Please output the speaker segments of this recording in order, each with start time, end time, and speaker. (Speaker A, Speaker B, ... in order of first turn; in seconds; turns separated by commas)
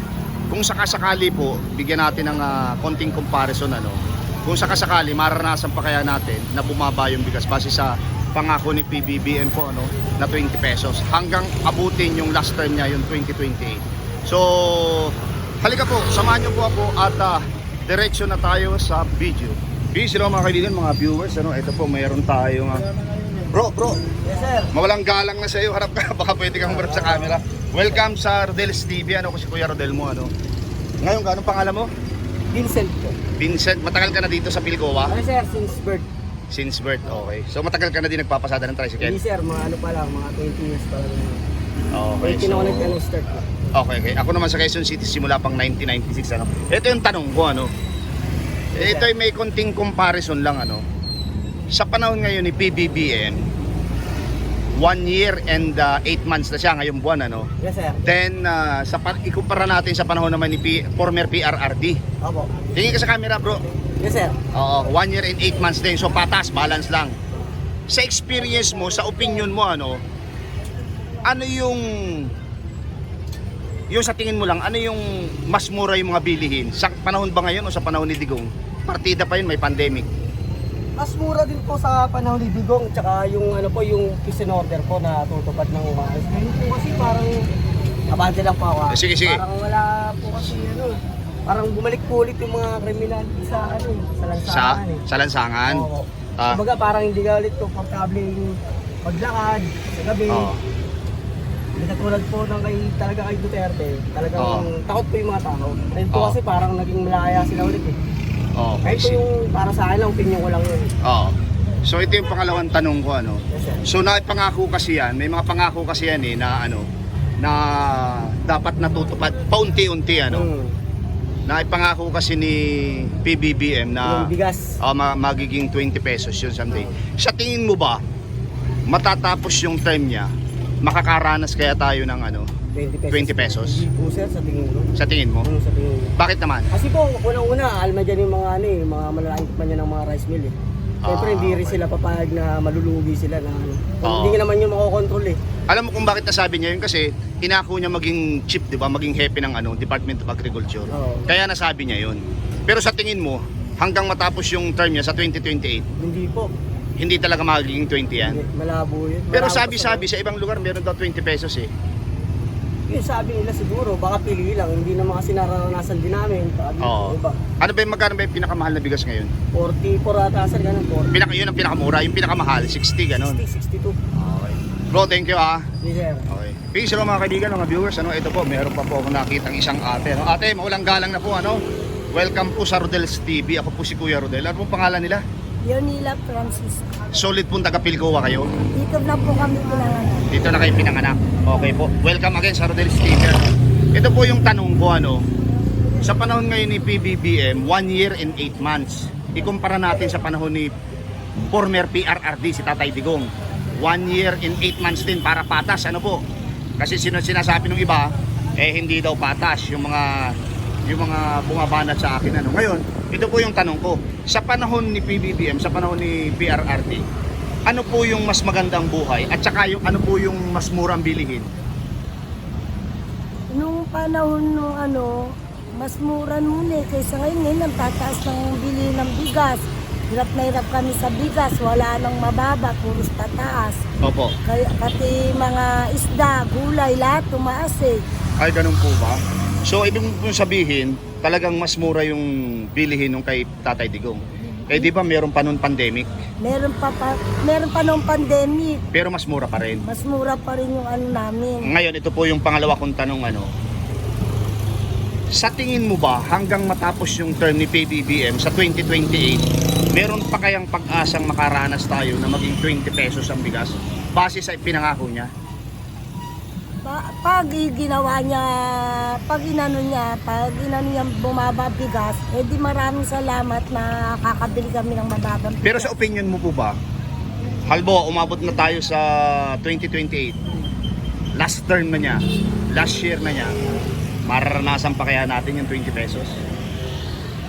Speaker A: 0.5-22.9, Speaker A: 23.5-24.0, Speaker B: 24.2-24.7, Speaker A: 24.7-30.3, Speaker B: 26.6-27.2, Speaker A: 31.0-31.9, Speaker B: 32.5-33.2, Speaker A: 33.4-35.1, Speaker B: 35.1-36.1, Speaker A: 36.5-39.2, Speaker B: 39.0-41.4, Speaker A: 41.9-43.0, Speaker B: 42.2-43.5, Speaker A: 43.7-47.7, Speaker B: 48.7-49.1, Speaker A: 48.7-50.8, Speaker A: 51.7-53.5, Speaker A: 54.7-57.5, Speaker B: 57.6-58.0, Speaker A: 58.0-62.0, Speaker B: 62.2-62.6, Speaker A: 62.7-63.6, Speaker B: 64.0-64.3, Speaker A: 64.5-67.2, Speaker A: 67.9-70.0, Speaker A: 71.2-72.3, Speaker A: 73.9-80.1, Speaker B: 81.0-87.4, Speaker B: 88.1-91.0, Speaker A: 88.9-89.4, Speaker B: 91.5-95.0, Speaker A: 94.4-95.9, Speaker B: 95.6-100.5, Speaker A: 96.4-96.6, Speaker A: 100.3-100.6, Speaker B: 101.8-108.0, Speaker A: 104.4-104.7, Speaker A: 106.1-106.4, Speaker A: 108.5-109.2, Speaker B: 108.8-110.9, Speaker A: 111.0-116.8, Speaker B: 113.5-113.8, Speaker A: 117.4-120.5, Speaker B: 120.3-120.8, Speaker A: 121.5-128.0, Speaker B: 124.0-124.8, Speaker A: 128.9-130.3, Speaker A: 130.8-132.5, Speaker B: 132.7-134.9, Speaker A: 133.1-133.8, Speaker A: 135.0-135.5, Speaker B: 135.4-136.1, Speaker A: 136.2-136.7, Speaker B: 136.7-145.4, Speaker A: 141.0-141.8, Speaker A: 144.0-144.4, Speaker A: 145.7-155.8, Speaker B: 150.9-151.2, Speaker B: 156.0-156.5, Speaker A: 157.0-158.4, Speaker B: 158.2-160.1, Speaker A: 159.3-161.7, Speaker B: 162.9-167.4, Speaker A: 166.8-169.3, Speaker B: 169.5-171.2, Speaker A: 171.1-173.4, Speaker B: 173.1-174.0, Speaker A: 174.2-175.6, Speaker B: 175.8-176.2, Speaker A: 176.3-181.6, Speaker A: 182.1-185.2, Speaker C: 185.6-186.9, Speaker A: 187.1-188.5, Speaker C: 188.8-190.3, Speaker A: 190.3-195.2, Speaker A: 196.0-200.7, Speaker A: 201.5-206.2, Speaker A: 206.8-210.3, Speaker A: 210.8-217.0, Speaker A: 217.7-221.5, Speaker C: 223.5-233.8, Speaker A: 234.0-234.3, Speaker C: 234.4-238.0, Speaker A: 238.4-246.1, Speaker C: 246.4-248.8, Speaker A: 248.9-249.8, Speaker C: 249.8-251.7, Speaker A: 251.7-253.5, Speaker A: 255.3-265.3, Speaker C: 266.8-275.9, Speaker A: 275.6-276.8, Speaker A: 277.7-280.4, Speaker A: 281.4-283.5, Speaker A: 284.2-286.4